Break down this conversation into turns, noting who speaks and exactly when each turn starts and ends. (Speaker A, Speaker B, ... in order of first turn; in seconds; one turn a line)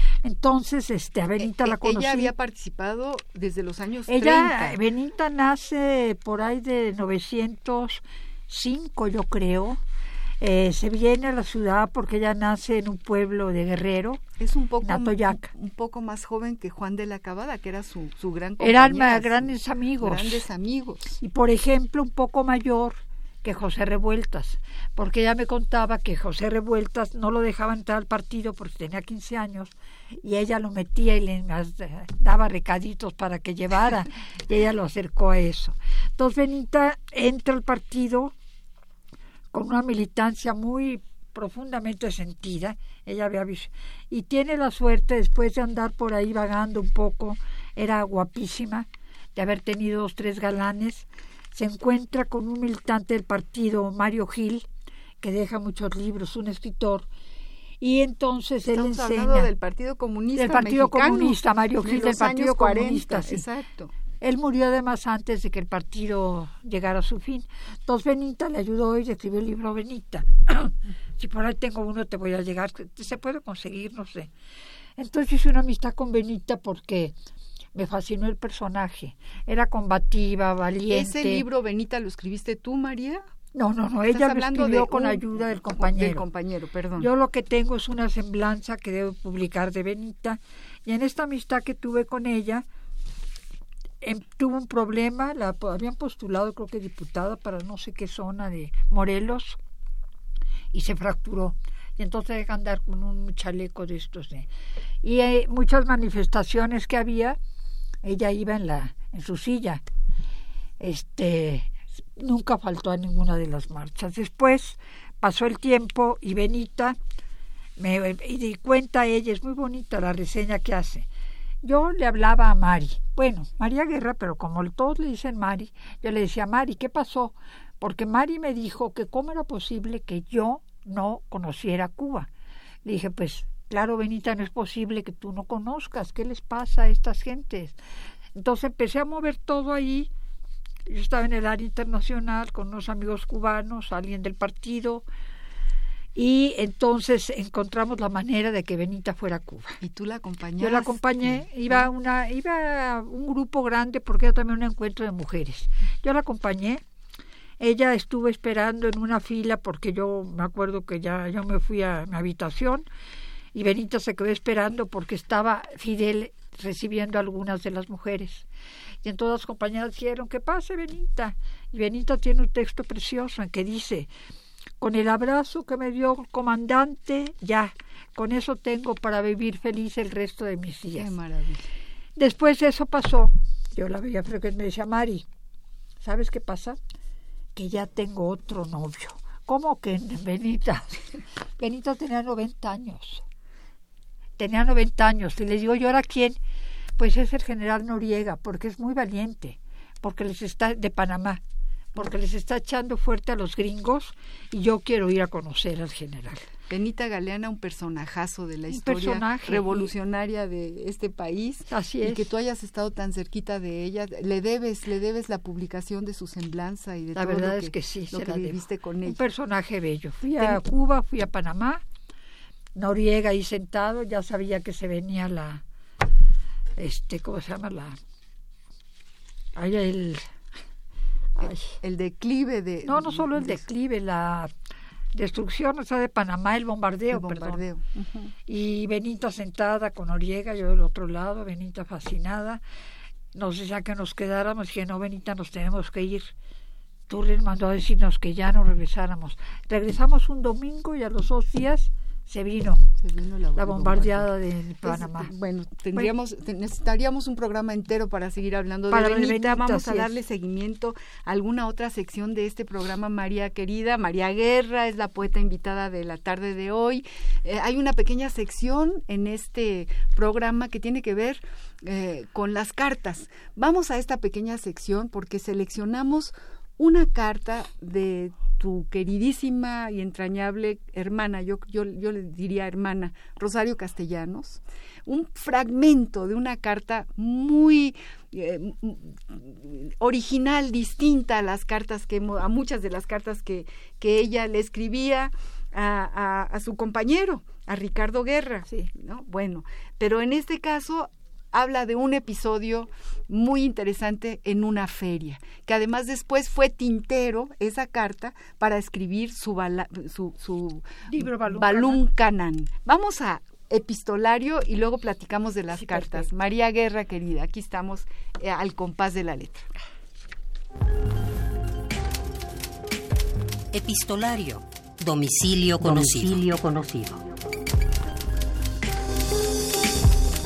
Speaker A: 0.2-2.3
Speaker B: 1.4-4.8
Speaker A: 4.1-9.8
Speaker A: 10.4-14.2
Speaker B: 14.4-21.2
Speaker A: 14.8-15.5
Speaker A: 18.6-20.5
Speaker A: 21.2-38.3
Speaker A: 39.5-54.7
Speaker A: 55.2-57.1
Speaker A: 57.8-59.5
Speaker B: 58.7-63.9
Speaker A: 60.4-63.5
Speaker A: 64.2-74.3
Speaker A: 75.0-77.1
Speaker A: 77.8-81.5
Speaker B: 80.9-83.2
Speaker A: 83.5-86.2
Speaker B: 84.1-87.1
Speaker A: 87.0-92.7
Speaker A: 94.0-99.6
Speaker A: 100.7-104.5
Speaker A: 105.0-107.4
Speaker A: 108.0-109.8
Speaker A: 110.8-117.0
Speaker A: 117.8-121.1
Speaker A: 121.6-132.3
Speaker A: 132.8-137.8
Speaker A: 138.3-140.1
Speaker A: 140.9-145.1
Speaker A: 146.2-149.8
Speaker B: 149.8-151.9
Speaker A: 150.6-156.8
Speaker A: 157.6-162.9
Speaker A: 163.5-168.5
Speaker A: 169.0-174.1
Speaker A: 174.8-181.1
Speaker B: 180.9-181.7
Speaker A: 182.2-185.3
Speaker A: 186.0-186.8
Speaker A: 187.6-193.2
Speaker A: 194.4-196.4
Speaker A: 197.0-201.4
Speaker A: 201.9-206.5
Speaker B: 206.7-219.2
Speaker A: 208.7-209.9
Speaker A: 211.7-212.3
Speaker A: 217.2-221.8
Speaker B: 220.3-220.6
Speaker A: 222.8-225.6
Speaker A: 226.8-228.0
Speaker A: 229.6-230.3
Speaker A: 231.4-231.7
Speaker B: 231.4-233.7
Speaker A: 232.9-234.5
Speaker A: 235.2-237.6
Speaker B: 237.1-238.3
Speaker A: 238.5-242.6
Speaker A: 243.3-246.3
Speaker A: 247.1-252.9
Speaker B: 253.0-254.3
Speaker A: 253.6-255.3
Speaker B: 254.8-319.7
Speaker A: 258.9-260.1
Speaker A: 311.1-312.0
Speaker A: 315.8-316.3
Speaker C: 323.7-327.2